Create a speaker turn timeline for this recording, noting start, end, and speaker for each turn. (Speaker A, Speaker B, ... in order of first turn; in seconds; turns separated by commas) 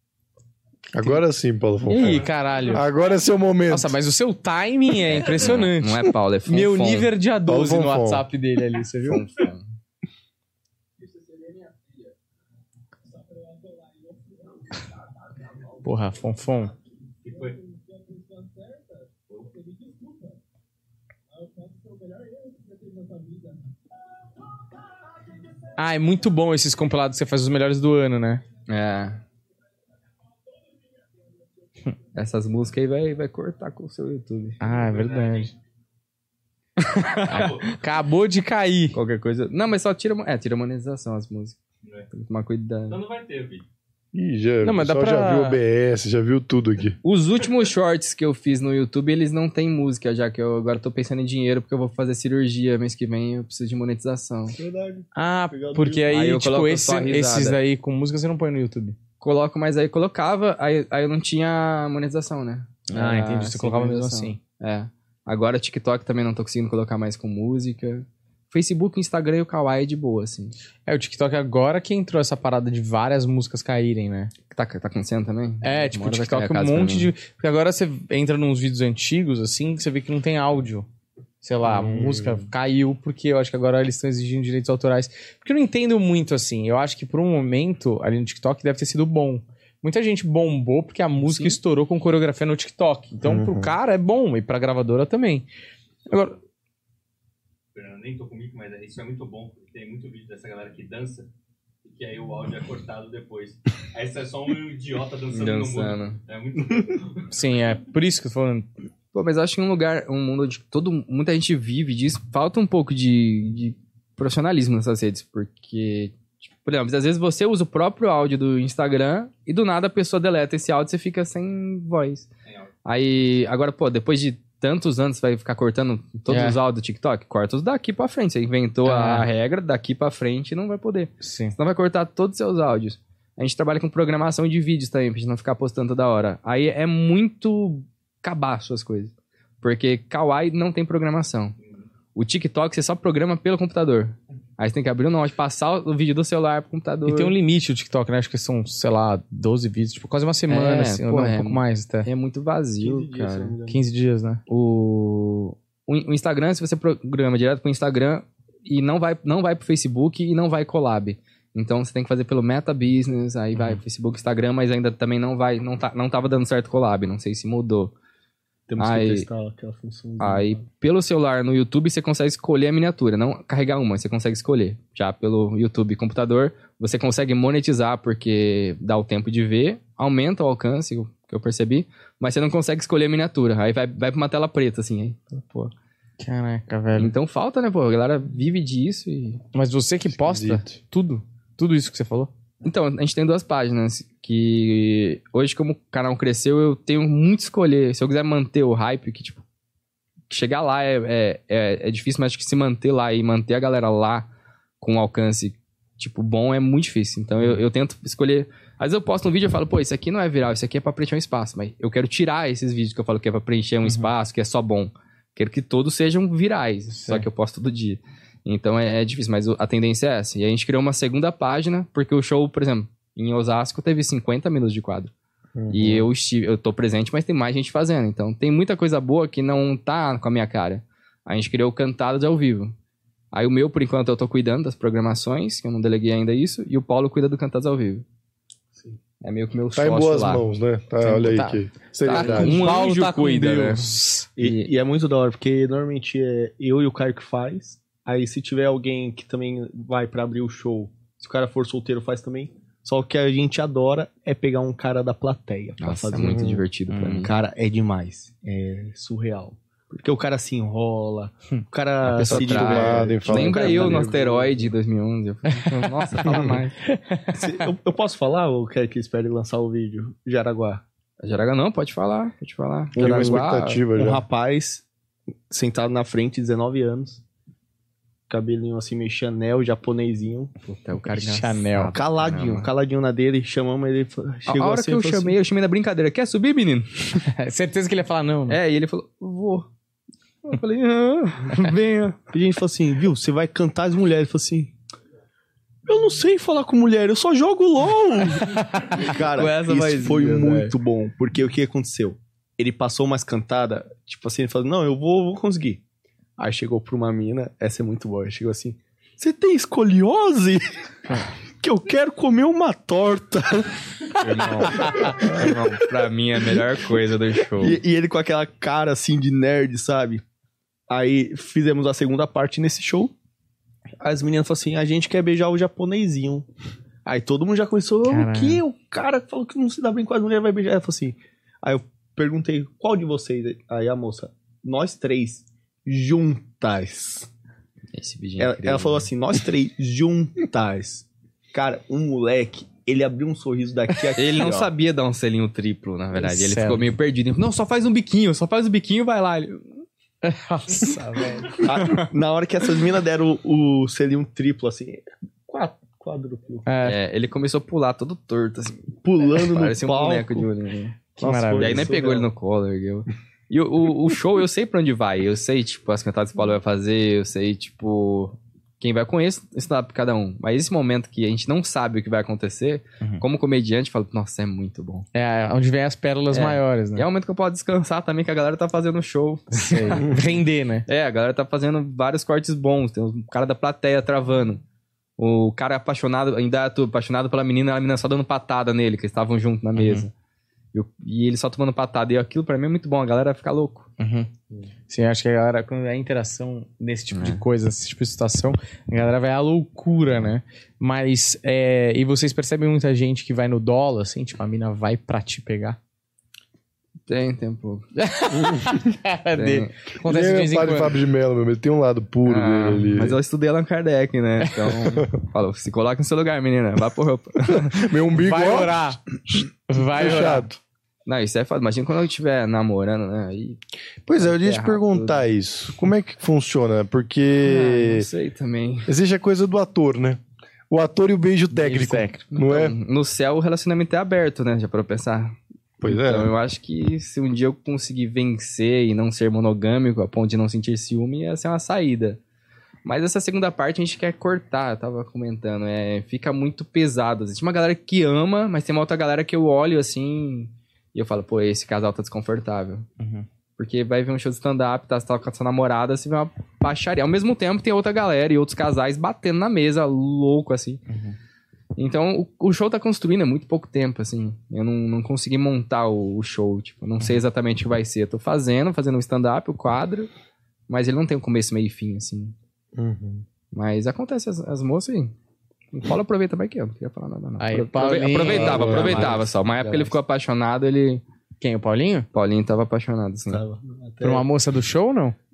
Speaker A: 0.9-1.2, Speaker B: 0.9-4.0, Speaker A: 1.9-2.9, Speaker A: 3.7-9.2, Speaker C: 5.1-7.1, Speaker B: 7.5-8.3, Speaker C: 9.1-9.7, Speaker A: 15.8-16.7, Speaker D: 17.2-17.6, Speaker D: 19.3-19.8, Speaker A: 25.8-28.4, Speaker C: 28.7-29.2, Speaker C: 32.1-34.6, Speaker A: 34.6-35.5, Speaker D: 34.7-35.5, Speaker C: 36.9-37.6, Speaker A: 37.2-39.0, Speaker D: 37.3-37.7, Speaker C: 38.9-41.6, Speaker C: 42.1-43.0, Speaker D: 42.9-43.6, Speaker B: 44.1-47.0, Speaker A: 44.6-45.6, Speaker C: 47.0-54.6, Speaker E: 54.5-56.1, Speaker A: 55.1-59.0, Speaker C: 56.1-57.6, Speaker C: 59.2-70.5, Speaker A: 62.9-64.4, Speaker A: 70.9-74.3, Speaker C: 74.5-77.1, Speaker A: 75.6-80.9, Speaker A: 81.4-95.5, Speaker B: 81.6-82.5, Speaker C: 91.2-91.6, Speaker B: 93.2-93.7, Speaker A: 96.1-96.4, Speaker D: 96.1-96.4, Speaker D: 97.7-101.3, Speaker D: 101.8-107.3, Speaker C: 105.3-106.2, Speaker A: 107.3-108.7, Speaker C: 109.1-122.3, Speaker C: 122.8-141.6, Speaker A: 126.3-126.6, Speaker A: 128.8-129.3, Speaker A: 131.2-131.6, Speaker C: 142.2-147.4, Speaker A: 147.1-152.1, Speaker C: 150.5-153.6, Speaker E: 152.8-153.8, Speaker A: 153.7-154.4, Speaker C: 154.5-167.9, Speaker E: 168.7-170.6, Speaker C: 168.8-169.3, Speaker C: 170.2-185.7, Speaker A: 186.2-187.1, Speaker C: 187.0-189.4, Speaker A: 189.5-192.3, Speaker B: 190.1-190.8, Speaker C: 192.6-199.4, Speaker C: 200.3-204.3, Speaker C: 204.8-225.1, Speaker A: 216.9-217.2, Speaker B: 225.6-226.1, Speaker C: 225.7-232.7, Speaker C: 233.3-238.1, Speaker C: 239.2-240.4, Speaker B: 239.8-242.7, Speaker A: 241.0-244.3, Speaker C: 242.0-244.7, Speaker E: 244.4-256.6, Speaker C: 255.8-257.3, Speaker B: 256.2-256.6, Speaker A: 256.9-257.3, Speaker E: 257.2-264.7, Speaker C: 262.0-266.8, Speaker B: 262.3-264.1, Speaker A: 265.5-266.2, Speaker B: 266.3-266.6, Speaker A: 266.8-267.4, Speaker E: 267.3-270.8, Speaker C: 271.2-273.8, Speaker B: 272.9-274.2, Speaker E: 273.0-274.8, Speaker E: 275.5-277.2, Speaker E: 278.3-280.5, Speaker C: 280.6-282.7, Speaker A: 281.1-281.9, Speaker E: 281.9-285.4, Speaker C: 284.5-287.2, Speaker A: 287.2-288.6, Speaker C: 288.5-289.7, Speaker C: 290.4-292.2, Speaker E: 292.3-294.7, Speaker E: 295.9-305.8, Speaker C: 299.2-300.7, Speaker E: 306.4-310.6, Speaker E: 311.6-315.6, Speaker C: 314.2-317.8, Speaker E: 317.6-320.2, Speaker E: 320.9-323.1, Speaker E: 324.0-326.5, Speaker E: 327.1-337.3, Speaker A: 328.1-328.6, Speaker C: 337.9-339.1, Speaker E: 338.4-344.7, Speaker C: 344.1-349.6, Speaker A: 346.2-346.9, Speaker A: 350.2-351.6, Speaker E: 351.6-356.7, Speaker C: 351.7-352.1, Speaker A: 356.6-357.0, Speaker C: 356.8-361.0, Speaker E: 359.0-360.5, Speaker E: 361.2-362.3, Speaker A: 361.2-361.9, Speaker C: 361.6-375.1, Speaker A: 375.1-377.1, Speaker C: 376.3-380.3, Speaker A: 379.5-380.9, Speaker C: 380.9-384.6, Speaker C: 385.2-390.1, Speaker A: 389.8-390.1, Speaker C: 390.7-393.9, Speaker A: 394.0-394.3, Speaker A: 394.9-405.8, Speaker C: 397.1-397.4, Speaker C: 407.1-407.9, Speaker A: 408.0-411.0, Speaker C: 409.4-409.7, Speaker B: 410.0-413.2, Speaker C: 412.2-417.9, Speaker B: 417.5-420.6, Speaker A: 418.2-419.0, Speaker A: 419.7-420.5, Speaker C: 421.1-423.6, Speaker B: 424.1-428.1, Speaker C: 424.2-425.3, Speaker C: 427.4-428.9, Speaker B: 428.9-432.8, Speaker A: 431.5-432.2, Speaker C: 432.3-442.2, Speaker B: 435.8-436.3, Speaker C: 442.9-452.9, Speaker A: 453.0-453.3, Speaker C: 453.6-460.8, Speaker A: 460.9-461.2, Speaker C: 461.8-470.1, Speaker C: 470.7-472.4, Speaker B: 472.8-473.2, Speaker C: 473.5-475.1, Speaker C: 475.7-481.0, Speaker A: 477.4-479.3, Speaker B: 478.2-479.2, Speaker A: 481.4-482.1, Speaker C: 482.1-483.4, Speaker E: 483.3-484.3, Speaker A: 484.0-485.2